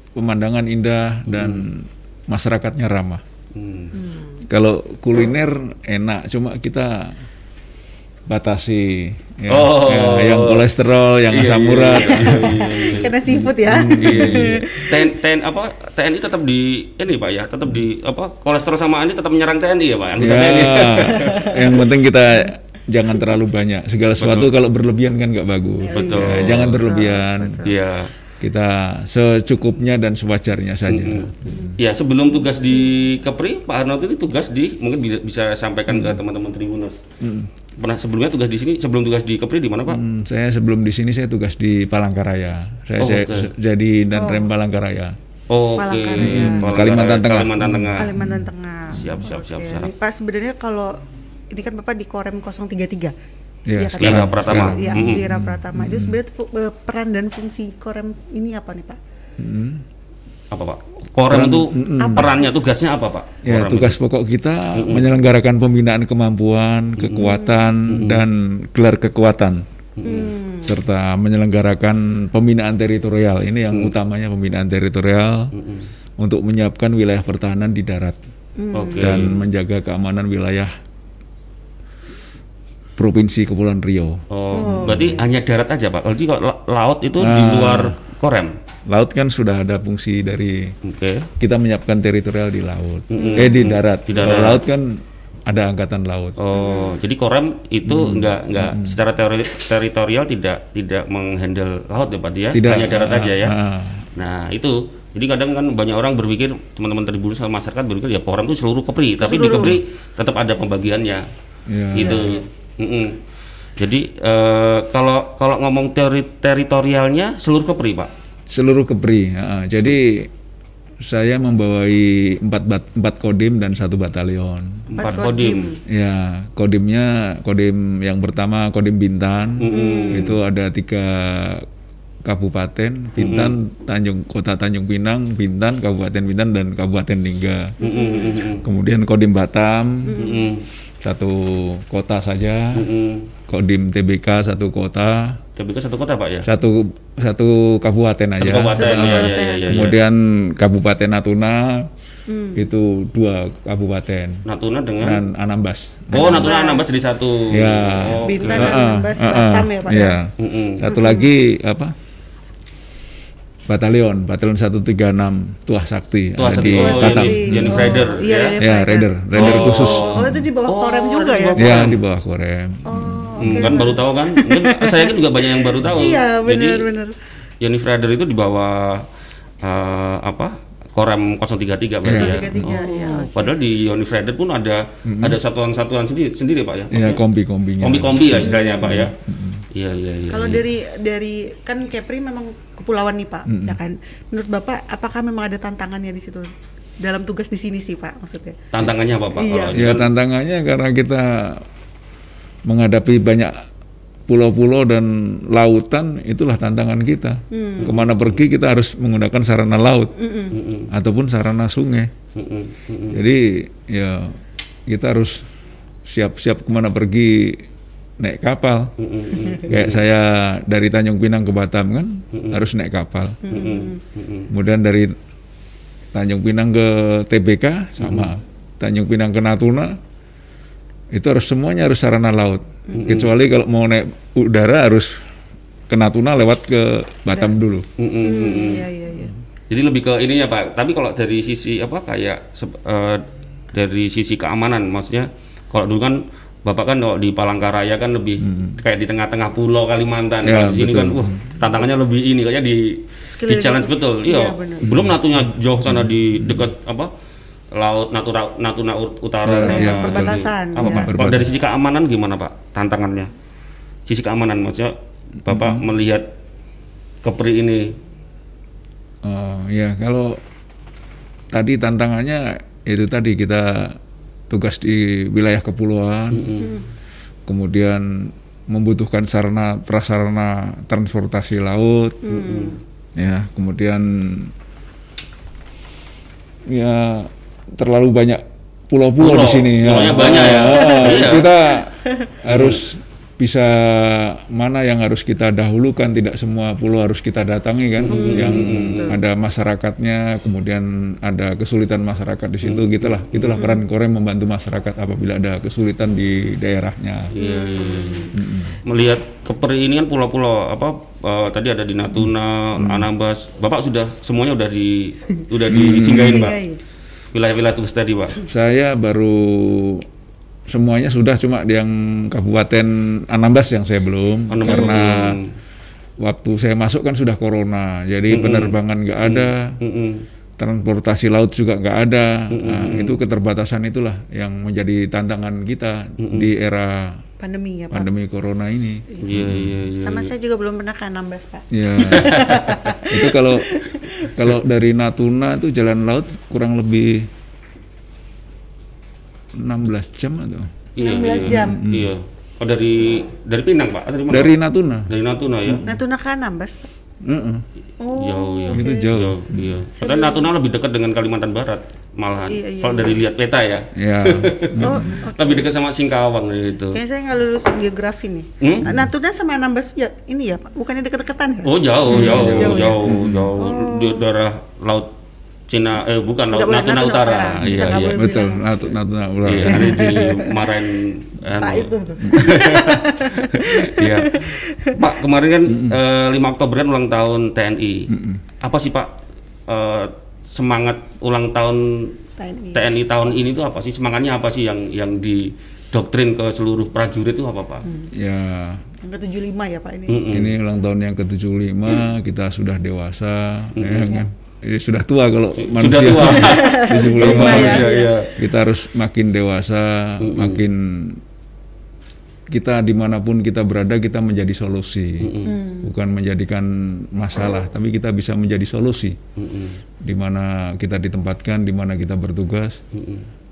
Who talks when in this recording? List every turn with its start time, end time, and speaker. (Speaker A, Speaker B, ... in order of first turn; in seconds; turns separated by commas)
Speaker A: 0.1-3.2, Speaker B: 1.3-1.7, Speaker B: 3.5-3.9, Speaker C: 3.9-4.4, Speaker A: 4.5-7.2, Speaker A: 8.3-14.6, Speaker B: 9.5-13.2, Speaker C: 12.2-15.1, Speaker B: 14.0-21.7, Speaker A: 20.2-27.7, Speaker C: 21.1-21.8, Speaker B: 24.2-24.6, Speaker C: 25.8-27.8, Speaker B: 25.9-26.8, Speaker B: 27.6-28.1, Speaker A: 28.4-31.8, Speaker B: 30.9-37.0, Speaker C: 31.5-31.7, Speaker A: 35.9-36.2, Speaker A: 37.2-37.5, Speaker B: 37.8-40.0, Speaker A: 39.9-45.2, Speaker B: 43.0-43.5, Speaker C: 44.1-44.5, Speaker B: 45.5-48.2, Speaker C: 45.8-46.7, Speaker A: 46.2-48.5, Speaker C: 48.0-51.0, Speaker B: 48.9-49.9, Speaker C: 51.5-53.1, Speaker A: 53.7-56.2, Speaker C: 53.7-59.0, Speaker B: 54.0-55.2, Speaker A: 59.4-59.9, Speaker B: 60.5-64.0, Speaker A: 61.3-62.4, Speaker C: 62.0-62.5, Speaker A: 63.5-69.6, Speaker B: 64.8-65.1, Speaker B: 67.0-68.2, Speaker C: 67.3-67.7, Speaker B: 70.0-70.3, Speaker C: 70.0-70.8, Speaker A: 70.6-75.5, Speaker B: 75.5-75.9, Speaker A: 76.2-78.2, Speaker C: 78.6-79.4, Speaker B: 78.7-79.4, Speaker A: 79.0-80.7, Speaker A: 83.0-85.2, Speaker B: 84.3-88.6, Speaker C: 84.5-85.3, Speaker A: 87.2-88.0, Speaker A: 88.9-90.8, Speaker B: 90.8-91.3, Speaker A: 91.4-96.4, Speaker B: 93.1-94.7, Speaker C: 93.2-93.6, Speaker B: 96.4-103.6, Speaker C: 96.5-97.0, Speaker A: 97.8-99.0, Speaker A: 102.5-104.1, Speaker B: 104.2-111.3, Speaker C: 109.2-109.8, Speaker A: 111.7-112.3, Speaker B: 111.9-113.2, Speaker C: 112.0-112.4, Speaker B: 113.8-118.1, Speaker A: 118.5-120.3, Speaker A: 121.0-125.3, Speaker B: 124.9-125.7, Speaker C: 125.0-125.8, Speaker A: 125.9-131.7, Speaker B: 129.6-130.4, Speaker C: 129.7-130.3, Speaker A: 132.2-137.8, Speaker B: 133.2-133.6, Speaker C: 137.8-138.4, Speaker B: 137.8-138.6, Speaker A: 138.5-140.2, Speaker C: 140.1-140.5, Speaker B: 140.2-140.7, Speaker A: 141.0-142.9, Speaker B: 142.7-143.3, Speaker A: 143.5-145.4, Speaker B: 145.6-146.5, Speaker A: 146.4-151.9, Speaker B: 148.4-150.0, Speaker C: 148.7-149.8, Speaker C: 152.3-152.7, Speaker A: 152.6-154.4, Speaker B: 154.5-155.2, Speaker A: 155.0-156.5, Speaker C: 156.1-156.9, Speaker B: 156.1-158.8, Speaker A: 157.5-161.9, Speaker C: 158.2-160.2, Speaker B: 160.4-160.9, Speaker C: 160.8-161.3, Speaker A: 163.7-170.5, Speaker B: 166.4-168.6, Speaker C: 166.7-171.9, Speaker B: 169.3-172.0, Speaker A: 171.6-173.8, Speaker C: 172.9-177.2, Speaker B: 173.4-176.9, Speaker B: 177.6-179.1, Speaker B: 179.6-187.2, Speaker A: 182.0-182.8, Speaker C: 182.1-183.5, Speaker A: 185.1-185.4, Speaker A: 186.9-189.7, Speaker B: 187.8-189.1, Speaker C: 188.3-189.1, Speaker B: 189.7-190.7, Speaker C: 190.3-196.5, Speaker A: 193.5-193.8, Speaker C: 197.0-198.7, Speaker B: 198.7-200.1, Speaker C: 199.3-199.9, Speaker A: 199.8-201.7, Speaker A: 202.7-203.7, Speaker A: 204.3-210.1, Speaker C: 207.5-207.9, Speaker B: 207.8-208.4, Speaker C: 210.2-210.6, Speaker B: 210.5-210.9, Speaker A: 210.9-212.1, Speaker B: 212.3-213.2, Speaker A: 213.1-215.5, Speaker A: 216.1-217.7, Speaker A: 218.2-218.9, Speaker B: 219.0-220.1, Speaker A: 219.6-223.4, Speaker B: 222.3-222.6, Speaker C: 223.4-224.0, Speaker B: 223.5-224.5, Speaker A: 224.5-225.2, Speaker A: 226.1-230.0, Speaker B: 228.0-228.3, Speaker A: 231.1-235.2, Speaker C: 232.9-233.2, Speaker B: 233.0-233.3, Speaker A: 235.9-237.9, Speaker B: 238.0-238.9, Speaker C: 238.2-239.3, Speaker B: 239.7-257.1, Speaker A: 248.4-248.8, Speaker A: 250.4-251.6, Speaker C: 253.2-254.9, Speaker A: 254.8-256.7, Speaker B: 257.7-263.3, Speaker A: 259.4-261.5, Speaker C: 259.6-261.1, Speaker B: 264.1-266.3, Speaker A: 265.5-265.9, Speaker B: 267.2-268.0, Speaker A: 269.2-270.4, Speaker A: 271.5-274.0, Speaker A: 274.5-276.5, Speaker B: 276.3-276.7, Speaker C: 276.6-276.8, Speaker A: 277.5-282.2, Speaker C: 282.2-282.8, Speaker B: 282.3-282.8, Speaker A: 283.2-284.5, Speaker A: 286.7-307.3, Speaker B: 289.2-291.5, Speaker C: 290.5-291.2, Speaker B: 292.5-292.8, Speaker B: 298.0-299.2, Speaker C: 298.1-299.2, Speaker B: 302.6-303.6, Speaker B: 307.3-308.3, Speaker C: 307.4-308.4, Speaker A: 308.3-308.8, Speaker B: 308.9-316.6, Speaker A: 312.1-313.1, Speaker C: 315.4-316.8, Speaker A: 315.7-316.5, Speaker B: 317.3-318.4, Speaker A: 318.4-320.1, Speaker A: 320.7-325.4, Speaker B: 324.5-325.5, Speaker A: 326.2-329.8, Speaker B: 328.3-330.2, Speaker A: 330.6-337.2, Speaker B: 332.5-333.2, Speaker B: 336.2-336.5, Speaker C: 337.4-338.1, Speaker A: 337.9-339.8, Speaker C: 339.1-339.4, Speaker B: 339.2-340.3, Speaker C: 339.9-344.4, Speaker A: 341.7-347.3, Speaker B: 342.1-342.7, Speaker A: 349.5-350.7, Speaker B: 351.0-354.6, Speaker C: 351.0-351.8, Speaker A: 351.4-352.1, Speaker A: 354.3-355.1, Speaker B: 355.1-355.9, Speaker A: 355.6-356.0, Speaker C: 355.8-356.9, Speaker A: 357.2-357.6, Speaker C: 358.0-359.1, Speaker B: 358.1-367.0, Speaker A: 358.7-359.9, Speaker C: 360.0-360.5, Speaker C: 362.4-363.2, Speaker A: 363.9-365.2, Speaker C: 364.8-365.7, Speaker C: 366.9-374.3, Speaker B: 368.6-368.9, Speaker B: 371.6-375.1, Speaker A: 372.1-373.5, Speaker B: 375.7-378.2, Speaker C: 376.5-378.7, Speaker A: 377.6-380.2, Speaker B: 379.4-388.1, Speaker C: 379.6-380.6, Speaker C: 381.6-385.0, Speaker A: 385.7-386.0, Speaker A: 388.1-388.4, Speaker B: 388.6-389.1, Speaker B: 389.7-392.2, Speaker C: 392.4-392.9, Speaker B: 392.7-397.9, Speaker C: 397.9-398.1, Speaker A: 398.1-398.9, Speaker C: 399.0-400.3, Speaker B: 400.1-400.5, Speaker A: 400.3-411.2, Speaker B: 403.8-404.2, Speaker B: 405.6-408.4, Speaker C: 406.2-408.2, Speaker B: 410.2-410.6, Speaker A: 412.5-419.2, Speaker B: 415.2-415.6, Speaker C: 415.4-415.9, Speaker B: 419.4-419.8, Speaker A: 420.0-422.8, Speaker B: 422.9-423.3